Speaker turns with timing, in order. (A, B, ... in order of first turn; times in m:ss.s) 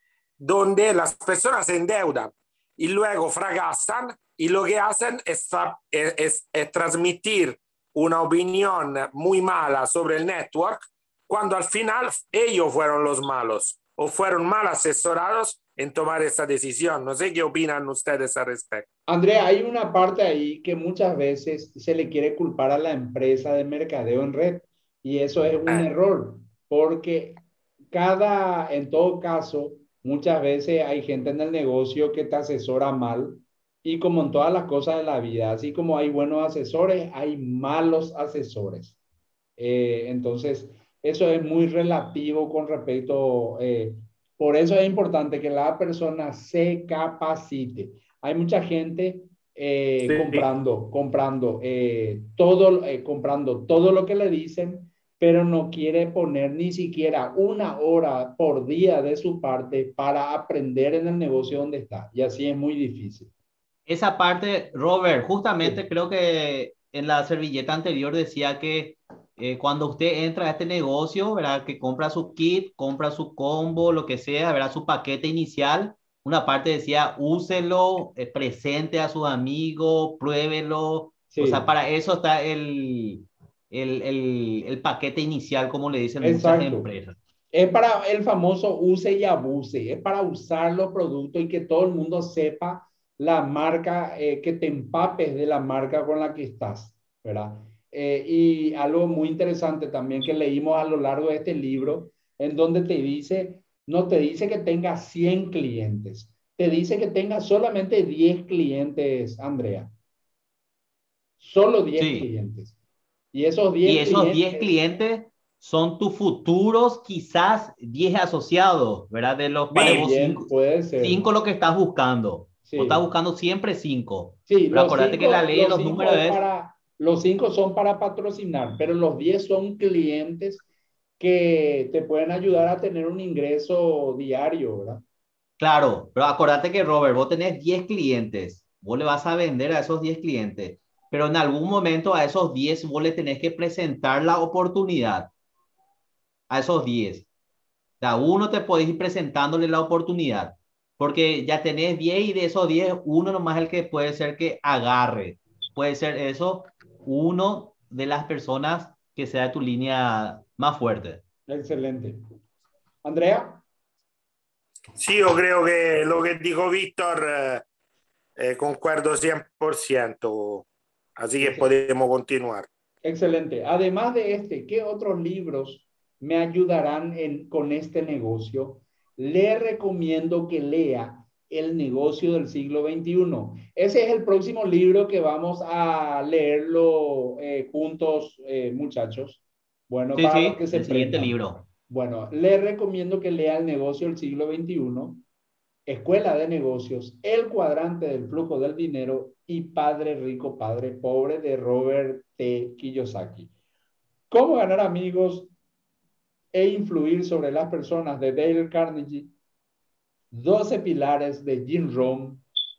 0:00.4-0:18.8 A
0:19.1-0:27.4 B
0:27.9-0:39.0 B
0:39.6-1:03.3 B
0:50.0-0:50.5 A
1:03.8-1:27.2 C
1:21.3-1:21.7 B
1:26.2-1:26.9 B
1:27.5-1:49.9 B
1:51.4-1:52.7 B
1:52.0-1:52.2 C
1:53.3-1:54.8 B
1:53.8-2:06.4 C
1:59.7-2:01.2 B
1:59.7-2:00.1 A
2:02.6-2:03.0 B
2:04.5-2:10.6 B
2:11.2-2:15.0 B
2:15.6-2:25.3 C
2:26.5-2:27.3 C
2:28.0-2:41.2 C
2:41.5-2:42.2 B
2:43.0-2:43.6 B
2:45.0-2:47.6 A
2:48.4-2:50.6 A
2:51.2-2:52.7 A
2:51.4-2:51.6 B
2:53.0-3:15.2 B
3:10.1-3:11.6 C
3:15.9-3:23.5 B
3:24.3-3:25.5 B
3:26.5-3:29.3 B
3:30.3-3:32.4 B